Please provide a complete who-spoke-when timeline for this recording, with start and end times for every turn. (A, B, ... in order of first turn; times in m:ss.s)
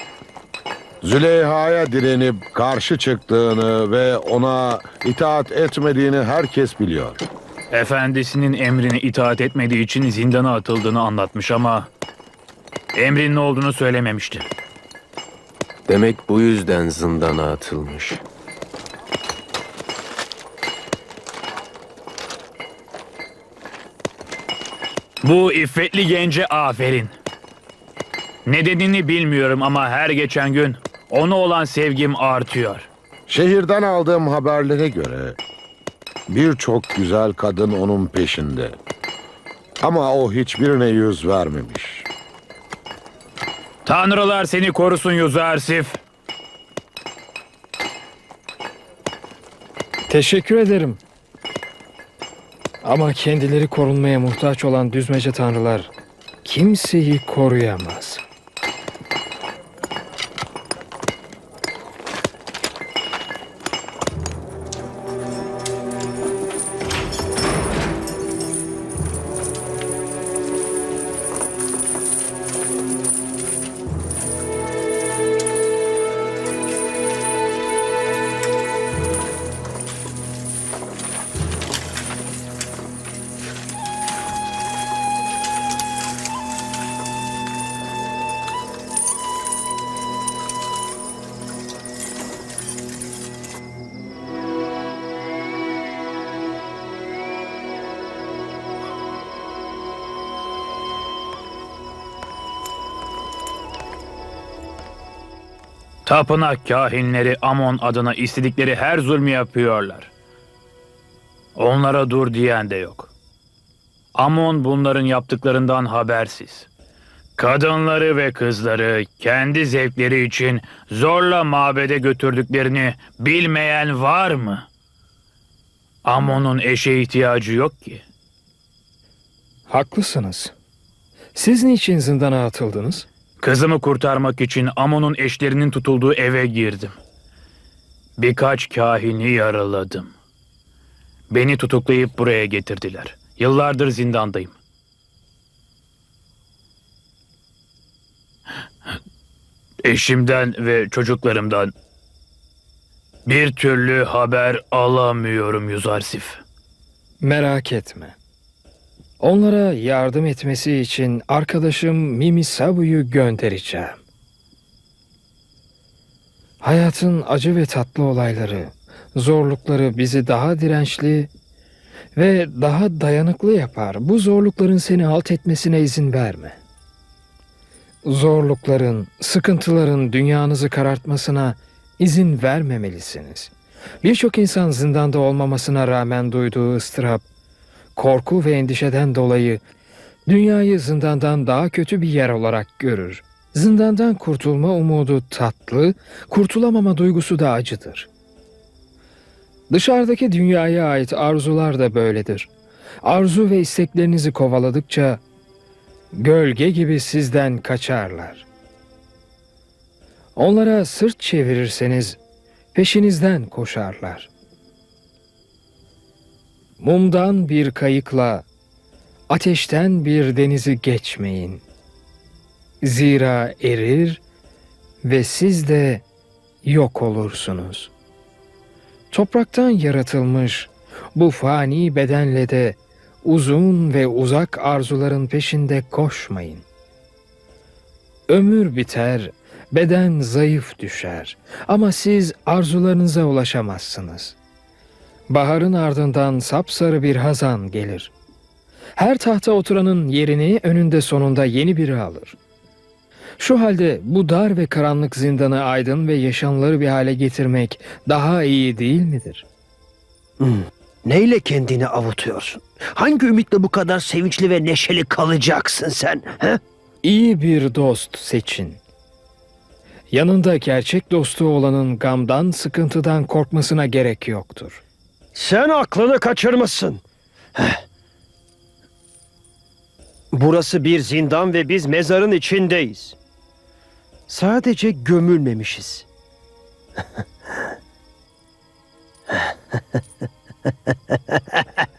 0:01.0-0:07.2 A
0:07.7-0:11.9 B
0:12.9-0:14.5 B
0:15.9-0:18.2 C
0:25.2-0:27.1 B
0:28.4-0:32.9 B
0:33.3-0:35.4 A
0:36.3-0:38.8 A
0:39.8-0:42.1 A
0:43.8-0:46.0 B
0:50.1-0:51.0 D
0:52.8-0:55.9 D
0:56.4-0:58.2 D
1:46.0-1:50.1 B
1:51.6-1:53.1 B
1:54.1-1:56.7 B
1:57.4-2:04.7 B
2:06.0-2:08.0 B
2:09.7-2:10.5 D
2:11.3-2:13.1 D
2:13.4-2:17.0 B
2:18.2-2:20.1 B
2:21.3-2:24.5 B
2:29.8-2:31.7 B
2:33.2-2:36.4 B
2:37.2-2:38.2 D
2:39.2-2:44.0 D
2:46.6-2:51.3 D
2:52.2-2:56.6 D
2:58.0-3:03.5 D
3:04.0-3:07.2 D
3:08.0-3:09.6 D
3:10.3-3:18.1 D
3:19.7-3:22.5 D
3:23.0-3:25.2 D
3:26.1-3:28.4 D
3:30.4-3:32.2 D
3:32.7-3:34.3 D
3:36.8-3:38.4 D
3:39.3-3:41.6 D
3:42.8-3:44.2 D
3:45.0-3:46.0 D
3:46.6-3:47.9 D
3:49.1-3:56.6 D
3:58.3-4:04.4 D
4:05.3-4:08.1 D
4:09.0-4:12.4 D
4:13.4-4:19.4 D
4:20.4-4:26.6 E
4:27.0-4:28.8 D
4:30.1-4:34.8 D
4:35.3-4:37.0 E
4:40.3-4:43.2 E
4:44.3-4:46.0 E
4:51.1-4:51.6 E